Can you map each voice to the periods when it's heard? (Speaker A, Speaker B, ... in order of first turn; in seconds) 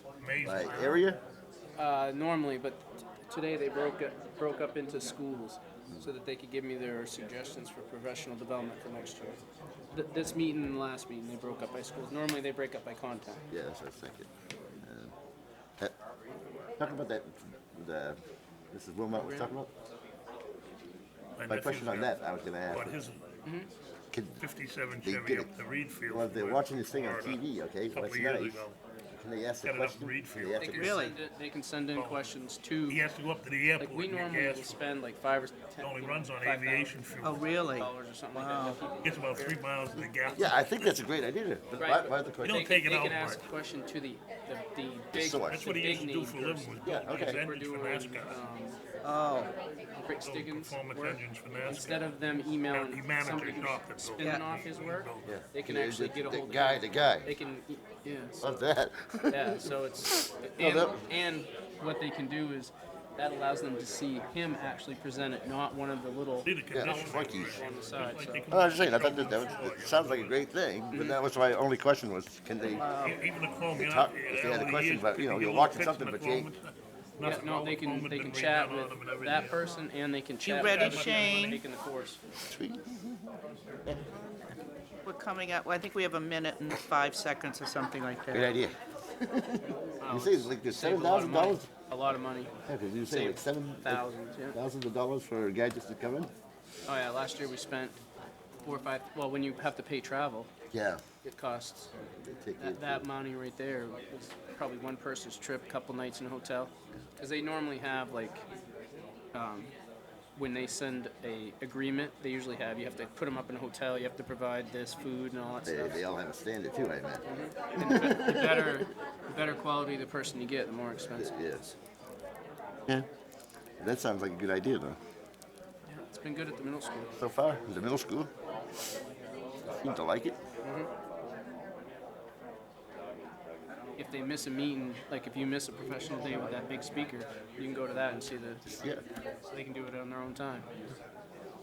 Speaker A: 0.2-1.0, 21.4-22.1, 22.7-23.4, 24.4-28.8, 29.6-31.0, 31.9-32.2, 32.9-34.8, 35.8-37.5, 39.0-40.7, 42.4-43.4, 45.3-48.4, 50.2-52.1, 52.7-55.3, 66.4-70.4, 73.0-79.6, 80.6-81.5
Speaker B: 0.4-1.2, 13.5-14.3, 14.8-15.1, 16.8-18.2, 18.7-19.7, 21.5-22.9, 24.1-24.4, 25.0-25.5, 26.1-31.0, 40.4-42.6, 45.1-45.6, 46.8-47.4, 55.2-57.3, 58.4-61.0, 66.7-67.6, 68.5-72.9, 73.8-76.5, 82.5-83.0, 88.3-91.7, 92.7-96.3, 100.7-101.0, 102.2-103.1, 115.6-117.2, 117.8-118.9, 121.0-121.8, 123.8-125.0, 127.2-128.3, 129.8-130.4, 138.8-139.0
Speaker C: 1.8-9.4, 9.9-13.4, 19.1-19.5, 30.6-33.0, 33.8-40.1, 41.8-48.8, 49.9-58.5, 59.3-66.5, 67.5-68.4, 70.9-71.2, 77.2-82.2, 90.0-92.5, 93.1-94.6, 96.9-98.0, 98.6-100.5, 101.2-101.9, 102.6-108.4, 109.3-109.7, 110.4-116.0, 117.2-121.3, 125.9-127.1, 130.6-130.9, 134.0-138.6, 139.5-140.7
Speaker D: 30.8-31.2, 37.2-38.8, 49.0-49.5, 72.7-73.2, 80.4-81.6, 85.0-88.5